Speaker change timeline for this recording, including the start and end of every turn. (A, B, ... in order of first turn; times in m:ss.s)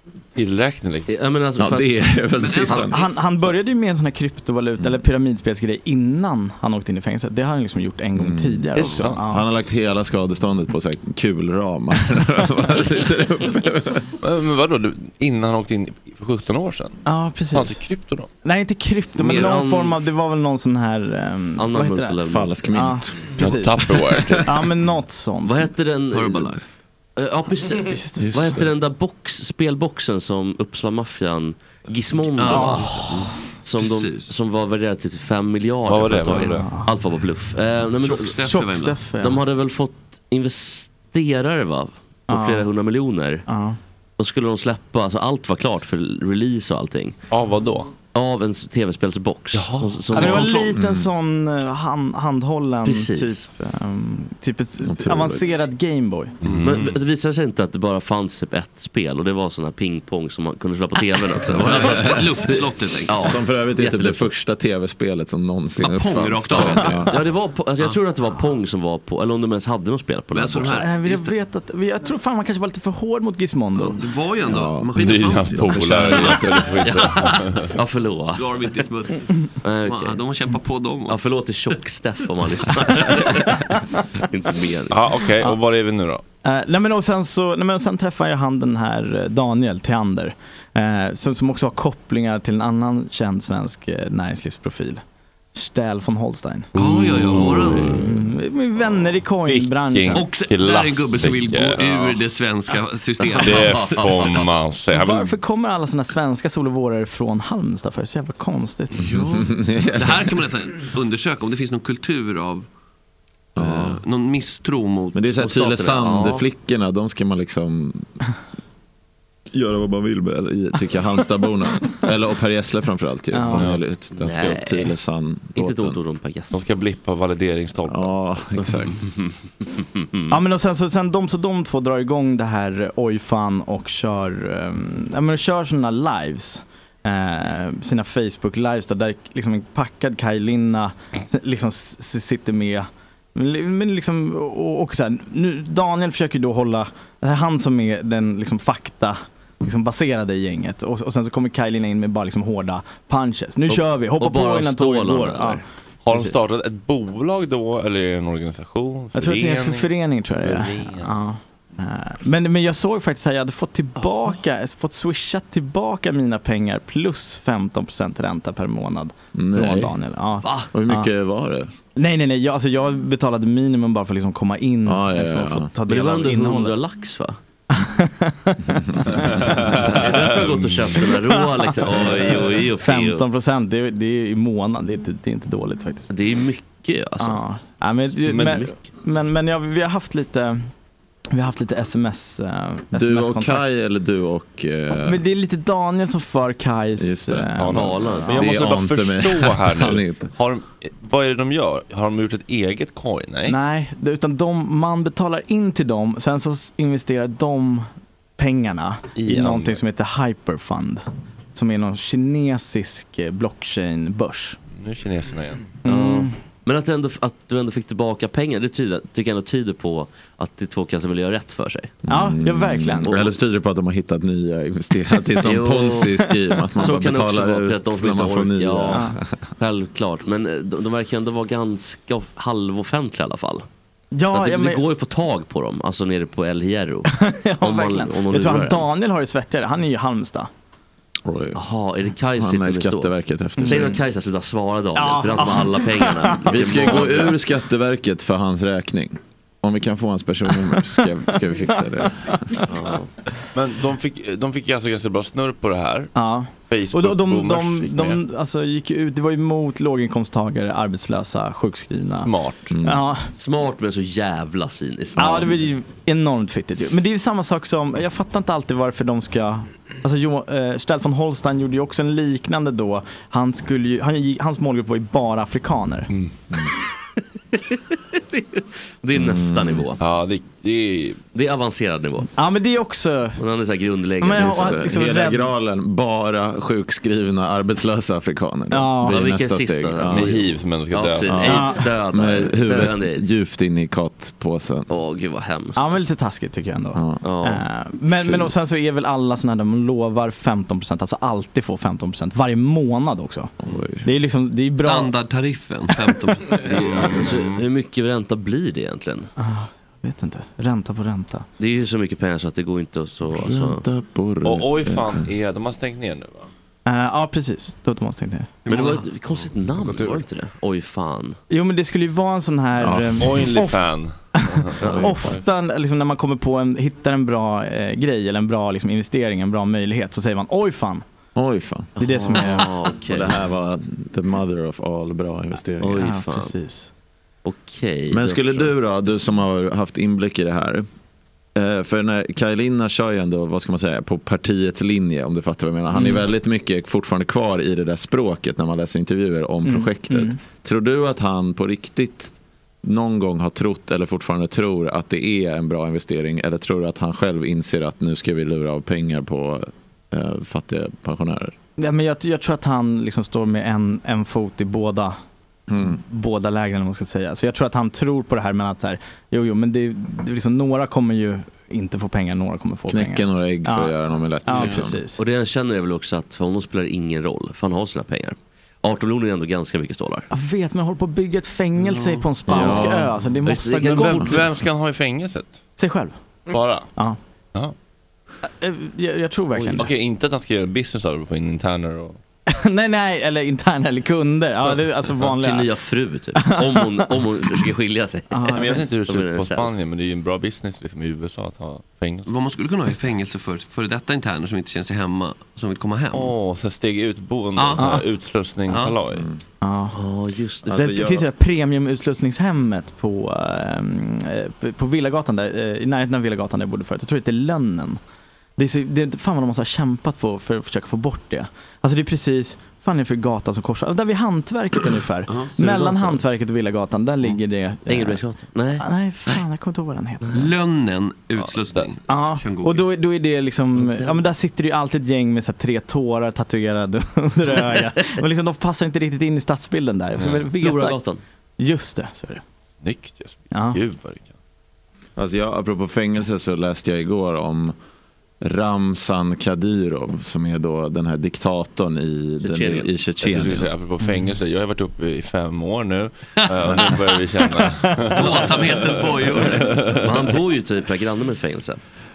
0:00.4-0:01.1 A
0:01.1-0:01.9 B
0:01.6-0:02.9 C
0:02.4-0:02.9 D
0:02.9-0:09.4 E
0:08.2-0:14.1 C
0:08.8-0:09.2 A
0:14.2-0:17.0 A
0:17.0-0:17.8 E
0:17.5-0:18.3 A
0:18.4-0:25.6 E
0:19.2-0:20.0 B
0:21.6-0:22.6 B
0:22.2-0:23.5 C
0:23.4-0:24.5 A
0:24.1-0:24.4 C
0:25.4-0:26.5 B
0:26.1-0:26.6 D
0:27.2-0:38.4 B
0:27.9-0:28.3 E
0:28.2-0:28.7 C
0:32.4-0:34.4 D
0:32.4-0:33.3 E
0:35.9-0:36.7 A
0:36.3-0:36.9 E
0:38.0-0:39.0 D
0:38.2-0:39.4 E
0:39.2-0:43.4 B
0:42.3-0:42.7 E
0:43.5-0:43.8 E
0:44.2-0:47.2 B
0:47.3-0:47.9 A
0:48.1-0:50.7 B
0:49.5-0:50.0 A
0:50.1-0:56.4 E
0:50.1-0:50.7 D
0:50.7-0:51.1 C
0:52.8-0:53.5 B
0:54.8-0:55.6 C
0:56.4-0:56.9 A
0:56.6-1:04.3 B
1:01.5-1:03.4 D
1:01.7-1:02.2 C
1:03.2-1:07.1 C
1:05.8-1:07.0 D
1:06.5-1:10.8 B
1:10.3-1:11.3 D
1:10.6-1:14.0 E
1:13.9-1:15.8 D
1:14.5-1:14.9 C
1:14.9-1:17.7 A
1:15.5-1:16.8 C
1:16.8-1:18.5 B
1:18.4-1:21.2 D
1:19.6-1:20.2 B
1:21.1-1:23.7 B
1:24.2-1:25.1 B
1:24.9-1:26.2 A
1:26.4-1:35.0 E
1:35.5-1:40.3 E
1:36.7-1:38.0 D
1:36.8-1:37.9 A
1:39.4-1:41.9 A
1:40.1-1:44.4 D
1:43.4-1:45.3 A
1:43.4-1:44.4 B
1:44.9-1:49.2 E
1:49.0-1:52.7 D
1:49.1-1:50.3 C
1:53.6-1:54.0 C
1:53.6-1:55.2 D
1:55.1-1:58.1 C
1:55.4-1:56.4 B
1:59.5-2:06.0 C
2:03.3-2:03.8 E
2:03.5-2:03.8 A
2:04.1-2:04.9 B
2:05.5-2:06.6 B
2:06.5-2:08.1 A
2:07.9-2:09.0 C
2:10.3-2:35.6 E
2:33.7-2:36.3 B
2:36.0-2:39.9 A
2:39.1-2:51.1 E
2:40.4-2:41.1 A
2:49.3-2:49.9 C
2:50.4-2:50.7 B
2:50.7-2:51.7 C
2:51.9-2:56.7 E
2:54.8-2:55.7 C
2:55.9-2:57.4 B
2:57.7-2:59.5 E
2:59.3-2:59.7 A
2:59.7-3:03.2 B
3:00.2-3:00.7 A
3:01.0-3:06.3 E
3:06.1-3:07.4 B
3:07.2-3:10.7 E
3:08.3-3:08.6 A
3:08.3-3:08.7 B
3:11.3-3:13.6 E
3:12.9-3:15.2 C
3:15.0-3:18.6 E
3:17.0-3:20.3 C
3:17.6-3:23.6 A
3:17.7-3:18.4 B
3:23.4-3:34.6 E
3:29.2-3:29.8 A
3:34.8-3:35.6 A
3:35.8-3:36.3 E
3:35.8-3:42.0 B
3:42.1-3:43.2 E
3:42.1-3:49.2 C
3:45.4-3:46.2 B
3:46.8-3:49.1 B
3:49.6-3:53.6 B
3:54.1-3:54.8 E
3:54.3-3:57.1 B
3:57.1-4:00.5 E
3:57.6-3:58.9 B
4:01.2-4:01.6 C
4:01.5-4:07.4 B
4:02.4-4:04.0 C
4:03.6-4:04.0 E
4:04.9-4:07.1 E
4:06.5-4:12.6 C
4:10.6-4:11.9 E
4:12.7-4:13.1 B
4:13.5-4:18.2 A
4:16.1-4:23.3 E
4:22.2-4:22.7 A
4:22.7-4:23.0 C
4:23.3-4:25.5 B
4:25.2-4:36.1 E
4:37.5-4:40.0 B
4:39.1-4:39.8 C
4:40.0-4:41.2 A
4:41.3-4:42.3 B
4:42.3-4:43.4 E
4:43.4-4:44.9 B
4:44.2-4:45.5 E
4:44.4-4:50.4 C
4:48.7-4:49.3 E
4:49.0-4:53.3 B
4:50.1-4:51.6 A
4:51.2-4:54.9 C
4:51.4-4:51.9 E
4:54.9-4:56.0 B
4:55.8-5:03.5 E
4:57.2-4:57.6 B
5:03.6-5:04.0 C
5:04.0-5:05.1 E
5:04.8-5:07.1 D
5:06.6-5:09.3 B
5:09.4-5:11.5 E
5:11.6-5:13.8 B
5:13.3-5:15.3 C
5:14.4-5:16.5 A
5:16.8-5:18.6 E
5:18.6-5:19.0 D
5:18.7-5:21.4 B
5:21.5-5:31.0 E
5:22.8-5:23.4 C
5:23.2-5:25.4 A
5:24.8-5:25.2 B
5:31.3-5:32.0 C
5:32.0-5:33.4 B
5:32.0-5:32.8 E
5:33.1-5:36.1 C
5:35.8-5:36.5 B
5:35.9-5:36.9 E
5:37.4-5:38.7 B
5:38.1-5:40.8 C
5:41.5-6:01.6 C
5:46.0-5:46.2 E
5:49.6-5:50.4 E
6:01.8-6:05.2 E
6:05.7-6:06.0 C
6:05.8-6:15.2 E
6:12.9-6:15.0 C
6:14.5-6:20.3 B
6:20.3-6:24.4 E
6:22.5-6:23.1 C
6:22.6-6:22.9 B
6:23.4-6:24.4 B
6:23.8-6:25.6 A
6:25.8-6:26.2 E
6:26.5-6:26.9 A
6:28.5-6:29.9 E
6:29.6-6:32.2 A
6:32.5-6:35.8 E
6:35.2-6:39.7 B
6:36.3-6:37.6 E
6:38.3-6:38.8 E
6:38.5-6:42.3 A
6:42.2-6:46.3 D
6:46.1-6:49.3 A
6:47.6-6:47.9 D
6:47.7-6:48.1 E
6:48.7-6:49.0 D
6:49.6-6:50.0 E
6:49.9-6:51.0 B
6:50.6-6:51.3 C
6:50.7-6:58.0 E
6:58.6-7:08.2 E
7:05.6-7:06.2 B
7:07.9-7:08.8 B
7:08.8-7:10.4 E
7:10.3-7:12.8 D
7:11.4-7:11.9 A
7:12.1-7:21.0 E
7:13.8-7:14.3 B
7:20.2-7:21.2 B
7:21.6-7:22.4 E
7:22.8-7:24.3 A
7:23.5-7:23.8 E
7:25.2-7:27.7 C
7:28.4-7:33.7 C
7:32.4-7:32.9 B
7:33.2-7:38.5 A
7:34.0-7:34.3 E
7:37.8-7:38.2 E
7:38.2-7:39.8 D
7:39.4-7:40.2 A
7:40.0-7:41.8 B